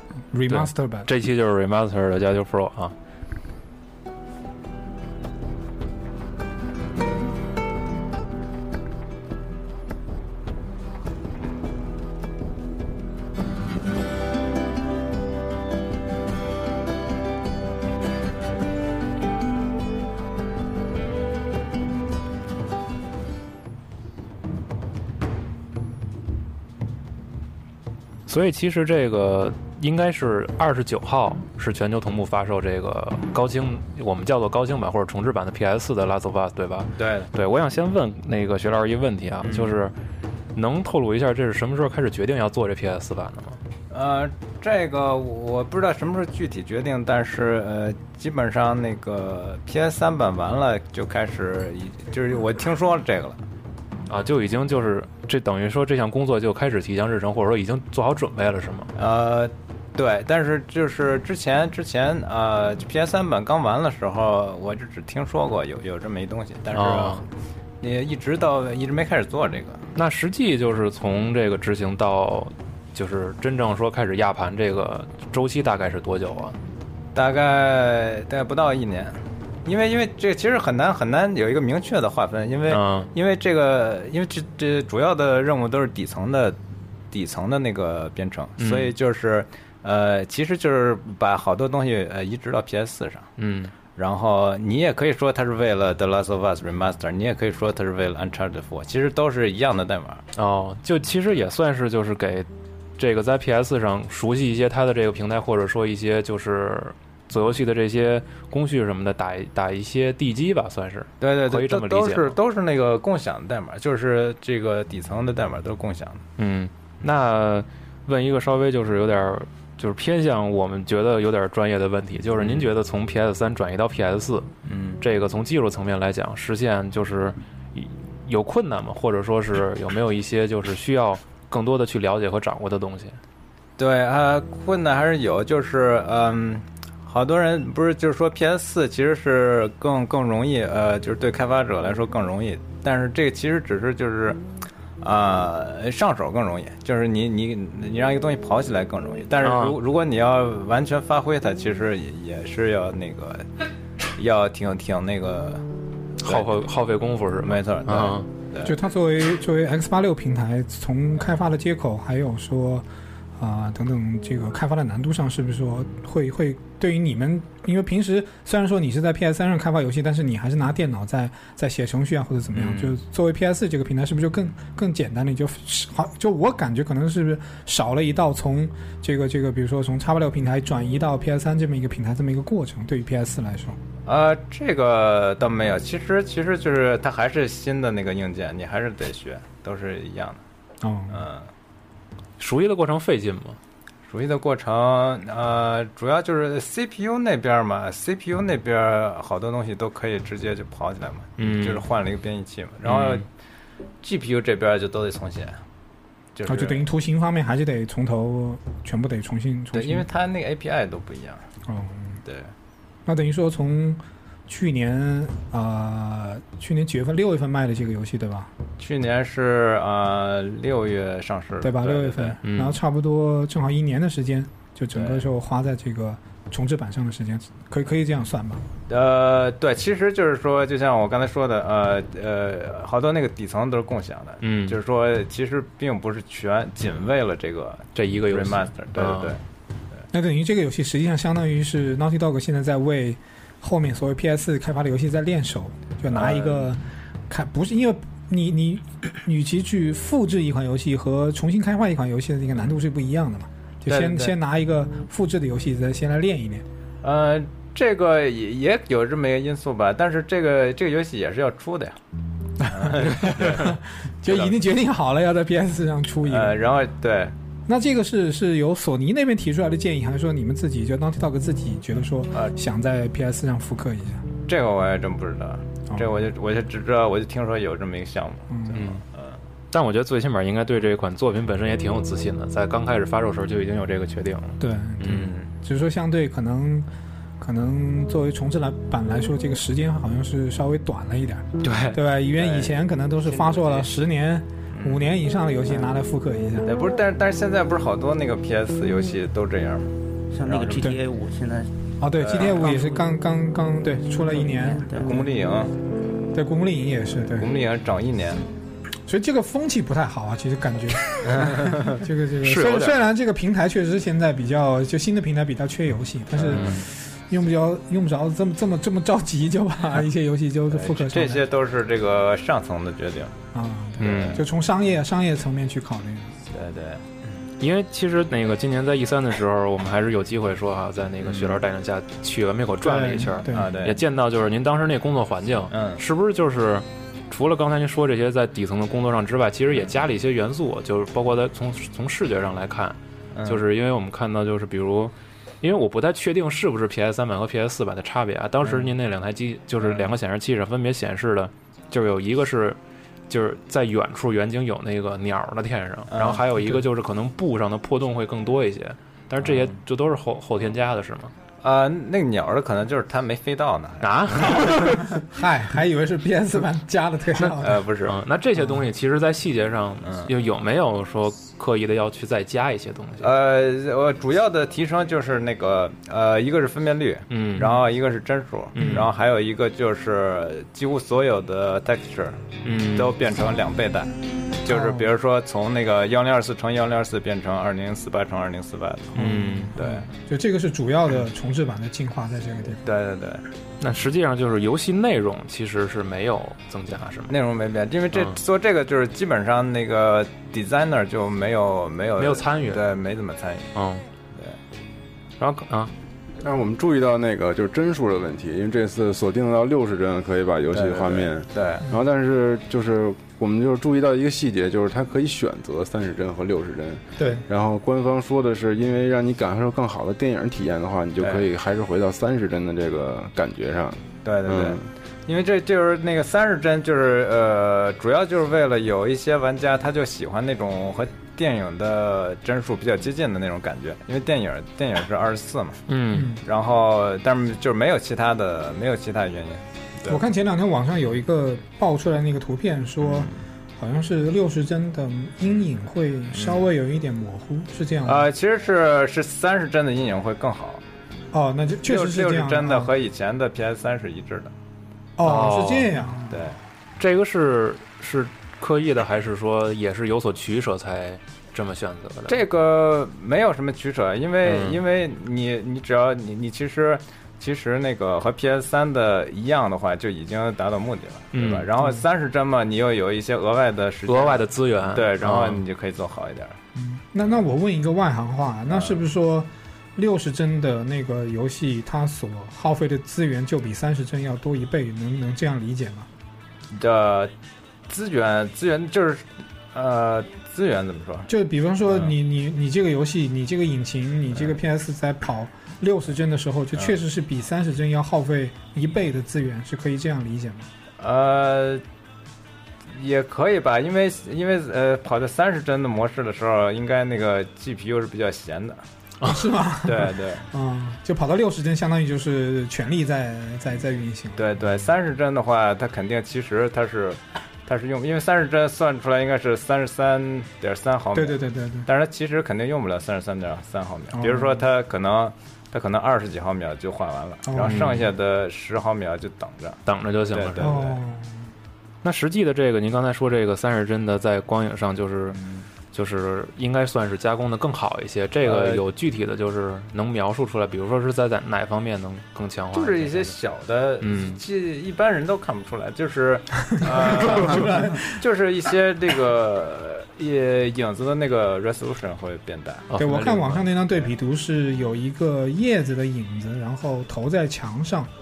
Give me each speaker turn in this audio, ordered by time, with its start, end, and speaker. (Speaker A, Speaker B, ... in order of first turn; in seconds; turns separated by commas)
Speaker A: 0.3-1.1, Speaker B: 0.5-2.9, Speaker B: 28.3-39.9, Speaker C: 37.0-37.3, Speaker C: 39.4-39.8, Speaker B: 40.5-43.6, Speaker C: 43.9-53.4, Speaker B: 54.1-58.9, Speaker C: 59.0-67.2, Speaker B: 66.7-67.2, Speaker C: 67.8-69.8, Speaker B: 70.0-76.5, Speaker C: 77.1-86.6, Speaker B: 82.7-83.1, Speaker C: 87.1-93.3, Speaker B: 88.6-88.9, Speaker B: 93.4-93.7, Speaker C: 93.9-100.2, Speaker B: 100.3-102.5, Speaker B: 103.0-112.3, Speaker C: 111.2-116.2, Speaker B: 116.4-133.2, Speaker C: 122.4-122.7, Speaker C: 124.7-125.0, Speaker C: 133.8-144.4, Speaker C: 145.0-153.5, Speaker B: 149.4-149.8, Speaker C: 154.1-155.6, Speaker B: 156.2-158.2, Speaker C: 156.2-156.5, Speaker C: 157.4-158.8, Speaker A: 158.6-183.8, Speaker B: 172.5-172.9, Speaker C: 184.1-190.4, Speaker A: 190.8-191.2, Speaker C: 191.1-191.5, Speaker B: 192.4-193.6, Speaker C: 194.1-203.2, Speaker B: 201.4-201.8, Speaker B: 202.8-203.2, Speaker C: 204.0-205.6, Speaker C: 206.3-206.9, Speaker A: 206.4-210.1, Speaker C: 209.7-211.5, Speaker A: 211.7-212.2, Speaker C: 212.2-212.5, Speaker A: 213.1-218.5, Speaker C: 218.8-222.4, Speaker A: 221.6-228.6, Speaker B: 222.4-222.8, Speaker C: 224.9-225.3, Speaker C: 228.9-239.4, Speaker B: 234.4-234.8, Speaker B: 237.9-239.3, Speaker A: 240.1-256.6, Speaker C: 246.1-246.7, Speaker C: 253.9-254.3, Speaker C: 257.0-262.0, Speaker A: 262.6-266.6, Speaker C: 262.6-264.6, Speaker C: 266.2-267.3, Speaker A: 267.7-274.2, Speaker C: 274.4-279.4, Speaker A: 278.5-278.8, Speaker B: 278.7-279.0, Speaker B: 279.7-285.3, Speaker A: 284.6-286.9, Speaker C: 285.1-285.5, Speaker A: 287.4-296.7, Speaker B: 291.6-292.0, Speaker C: 292.2-294.0, Speaker C: 294.7-295.1, Speaker C: 296.6-300.9, Speaker D: 300.3-301.7, Speaker A: 302.0-305.2, Speaker C: 302.2-302.7, Speaker D: 302.6-303.0, Speaker D: 304.4-305.2, Speaker C: 305.0-305.7, Speaker A: 306.3-307.5, Speaker C: 307.4-308.4, Speaker A: 309.1-321.4, Speaker C: 311.2-311.8, Speaker B: 312.4-312.9, Speaker C: 316.4-316.8, Speaker B: 316.5-316.8, Speaker C: 320.7-323.3, Speaker A: 323.5-326.4, Speaker B: 324.0-324.4, Speaker C: 324.0-324.5, Speaker C: 326.5-327.2, Speaker B: 327.6-352.8, Speaker C: 331.2-331.6, Speaker A: 332.8-333.7, Speaker C: 333.5-334.0, Speaker C: 335.7-336.0, Speaker C: 343.3-343.6, Speaker C: 348.6-348.9, Speaker C: 349.8-350.1, Speaker B: 353.3-361.3, Speaker C: 356.1-356.7, Speaker C: 359.4-359.8, Speaker C: 361.6-364.8, Speaker B: 364.0-364.9, Speaker A: 364.6-367.8, Speaker C: 367.6-368.2, Speaker B: 368.0-373.3, Speaker C: 370.0-370.3, Speaker C: 373.2-384.1, Speaker B: 377.3-377.8, Speaker B: 378.8-379.0, Speaker A: 378.8-379.1, Speaker B: 382.6-383.1, Speaker A: 384.6-385.1, Speaker C: 384.6-390.1, Speaker A: 389.1-392.8, Speaker B: 389.1-389.7, Speaker C: 392.8-393.4, Speaker B: 393.8-397.3, Speaker C: 397.3-403.7, Speaker B: 402.2-402.8, Speaker B: 403.7-404.0, Speaker B: 405.4-405.9, Speaker E: 406.4-424.8, Speaker C: 410.7-411.8, Speaker A: 417.2-417.4, Speaker C: 421.2-421.5, Speaker C: 424.2-435.8, Speaker B: 435.9-436.3, Speaker A: 436.1-436.4, Speaker C: 436.4-440.2, Speaker A: 440.1-448.3, Speaker C: 443.0-443.4, Speaker C: 446.3-446.7, Speaker C: 448.0-450.8, Speaker A: 451.3-452.9, Speaker C: 451.8-454.5, Speaker A: 455.2-456.4, Speaker B: 455.2-455.9, Speaker C: 456.3-456.6, Speaker B: 457.0-462.4, Speaker C: 462.3-476.6, Speaker B: 464.4-464.8, Speaker B: 471.3-471.7, Speaker B: 474.1-475.6, Speaker A: 476.7-486.1, Speaker C: 478.7-479.0, Speaker C: 486.7-487.3, Speaker C: 487.9-491.3, Speaker A: 491.3-500.7, Speaker C: 491.9-492.1, Speaker C: 496.7-497.0, Speaker C: 501.0-501.8, Speaker C: 502.9-508.8, Speaker A: 509.2-514.7, Speaker C: 509.8-510.4, Speaker C: 514.4-531.0, Speaker A: 521.1-521.9, Speaker A: 524.1-524.6, Speaker A: 527.5-528.1, Speaker B: 527.7-528.0, Speaker B: 529.9-530.7, Speaker A: 530.6-531.5, Speaker B: 532.0-535.4, Speaker C: 535.3-535.7, Speaker B: 535.9-543.3, Speaker C: 538.4-538.8, Speaker C: 542.7-552.9, Speaker B: 544.0-544.4, Speaker A: 546.8-548.2, Speaker B: 552.9-553.7, Speaker A: 553.0-558.1